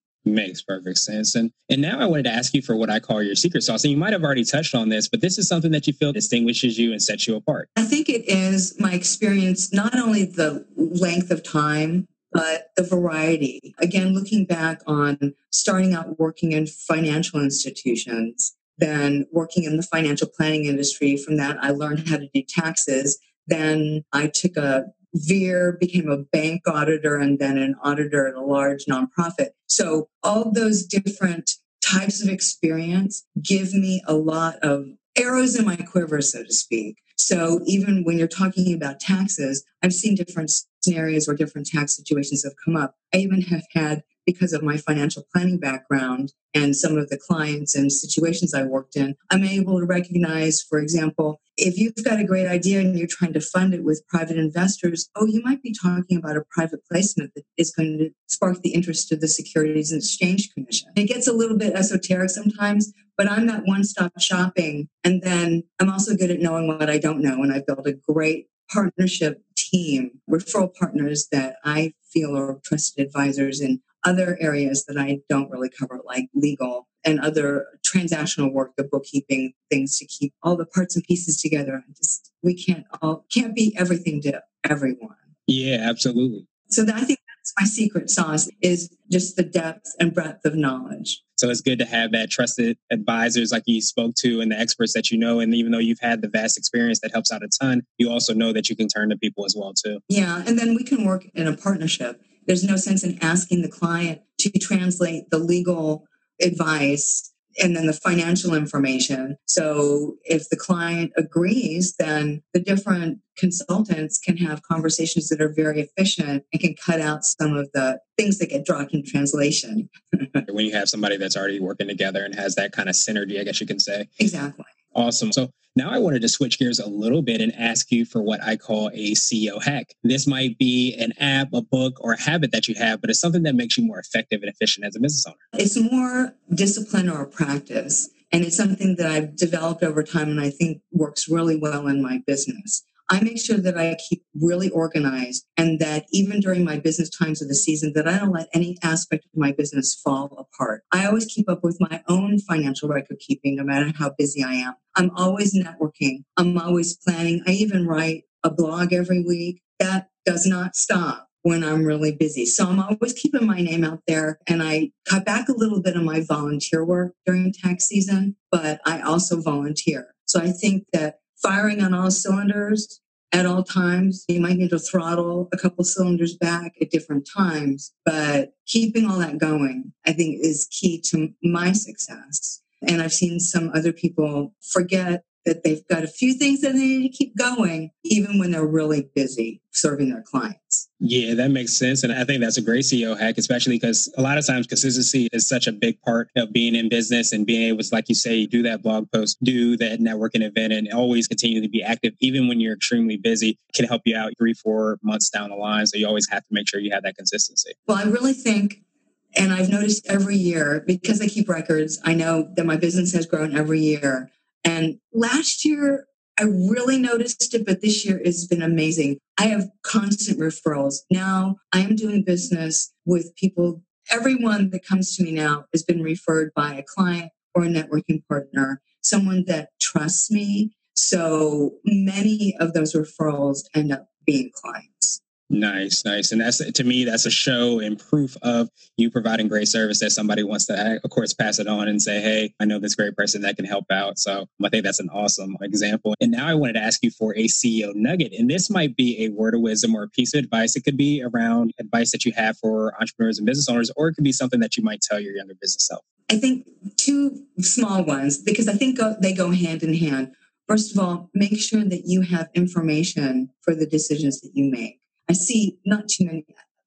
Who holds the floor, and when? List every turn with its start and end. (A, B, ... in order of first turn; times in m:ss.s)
0:00.2-0:07.7 A
0:07.8-1:25.2 B
1:25.5-1:26.5 A
1:26.7-1:31.2 B
1:31.4-1:40.0 A
1:40.1-2:00.4 B
2:00.5-2:04.1 A
2:04.2-2:04.7 B
2:04.9-2:15.4 A
2:15.6-3:10.9 B
3:11.0-3:27.7 A
3:27.9-3:28.8 B
3:29.4-3:55.2 B
3:55.5-4:16.0 A
4:16.3-4:26.5 B